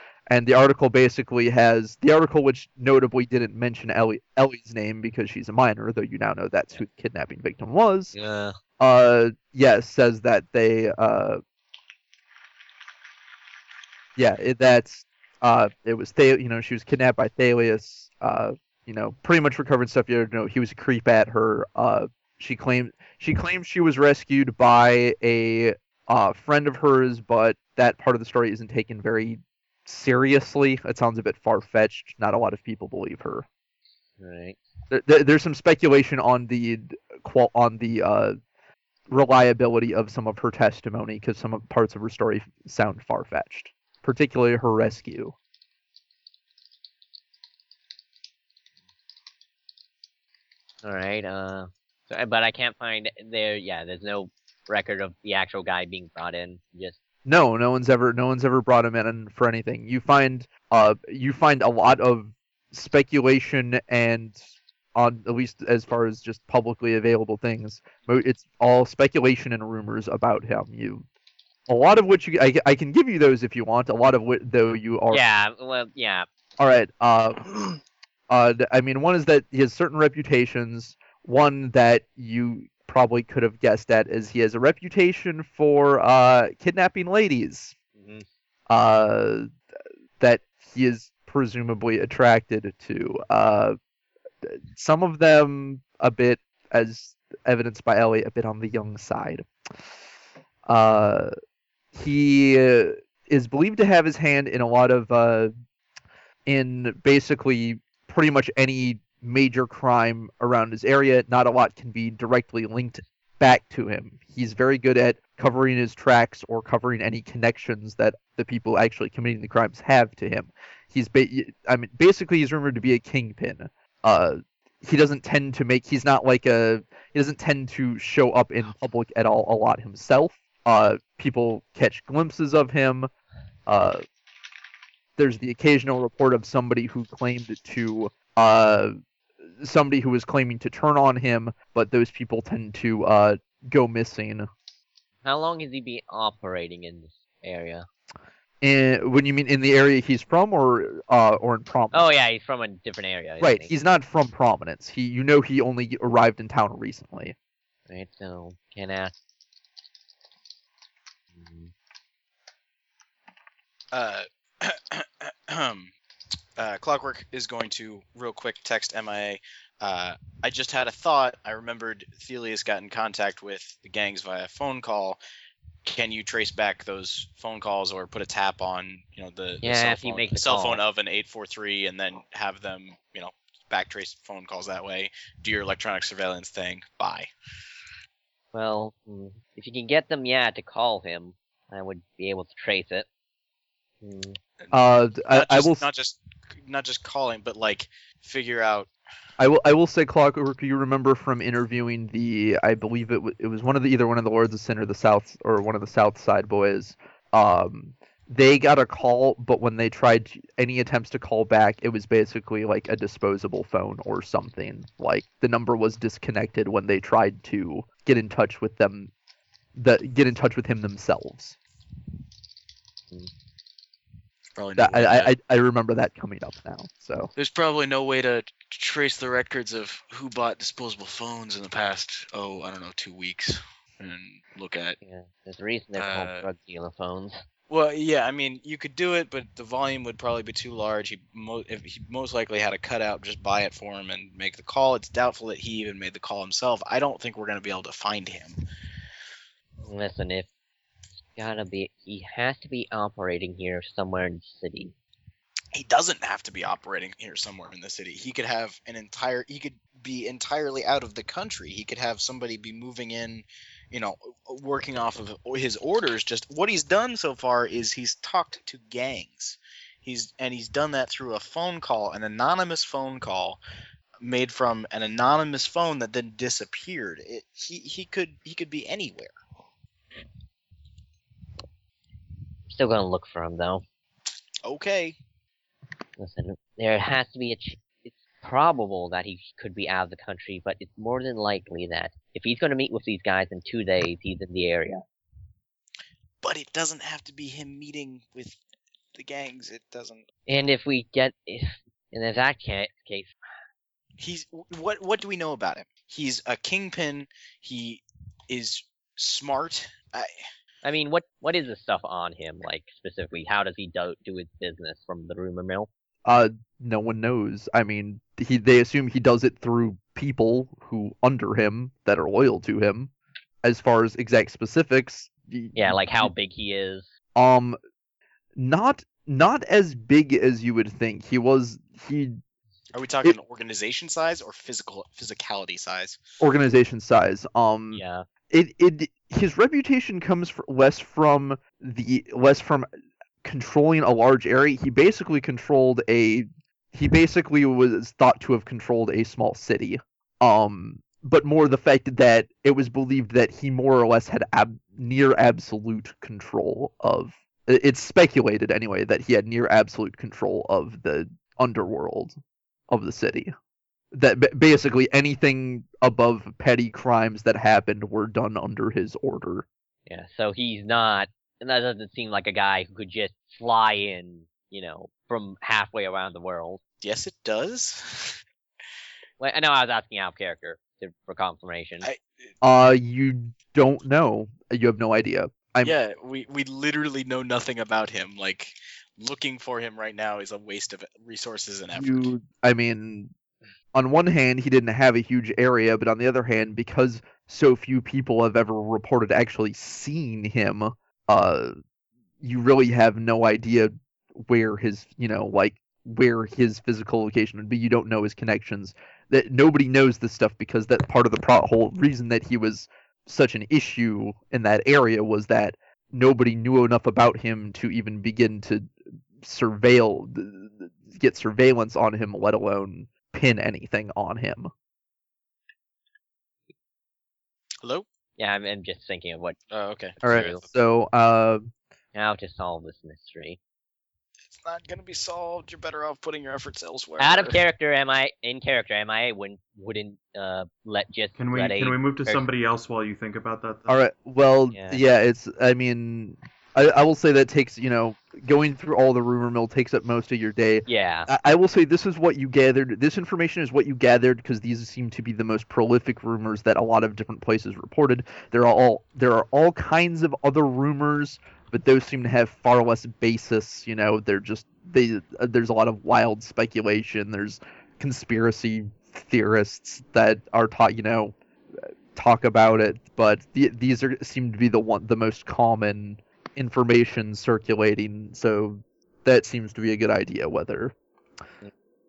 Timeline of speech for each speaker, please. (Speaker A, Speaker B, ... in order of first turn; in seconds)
Speaker A: 0.3-8.1, 8.8-11.4, 14.2-33.5, 34.9-38.4, 39.1-45.3, 57.2-64.4, 65.0-71.0, 71.7-75.2, 76.6-77.5, 78.3-87.7, 88.7-89.5, 90.2-93.8, 94.4-99.5, 100.7-101.3, 101.9-105.5, 106.5-133.1, 133.7-134.0, 135.2-139.0, 139.6-144.5, 148.6-152.1, 153.4-157.3, 194.7-195.8, 199.4-219.1, 219.8-221.6, 224.8-227.3, 316.2-323.1, 323.6-326.3, 327.4-327.8, 328.6-332.4, 336.4-342.9, 343.4-362.4, 362.9-363.5, 364.1-369.6, 382.6-385.9, 391.9-393.3, 393.9-401.8, 402.4-424.7, 430.2-431.7, 443.9-471.3, 472.1-480.9
Speaker B: 8.1-8.6, 34.2-34.6, 50.8-57.0, 75.1-76.3, 88.0-88.2, 145.2-147.8, 151.9-153.7, 157.9-159.1, 161.3-161.7, 179.6-180.8, 188.5-193.1, 194.0-194.4, 235.0-237.4, 249.8-250.5, 251.3-254.9, 282.7-283.8, 286.2-295.0, 300.5-303.3, 310.8-315.9, 325.7-327.1, 337.9-338.2, 370.1-376.8, 379.4-382.1, 428.4-429.6, 430.2-430.6, 432.1-433.6, 437.2-442.5, 444.7-445.0, 450.9-451.3
Speaker C: 163.9-165.9, 166.6-175.2, 175.8-187.3, 194.6-198.9, 224.6-225.3, 227.3-235.0, 235.9-236.5, 237.7-248.6, 255.7-273.6, 274.2-279.4, 284.6-285.2, 296.4-298.6, 299.1-300.2, 304.2-310.3, 332.9-336.2, 377.0-378.4, 382.0-382.5, 385.8-392.3, 429.7-430.7, 434.5-437.6
Speaker D: 441.4-443.9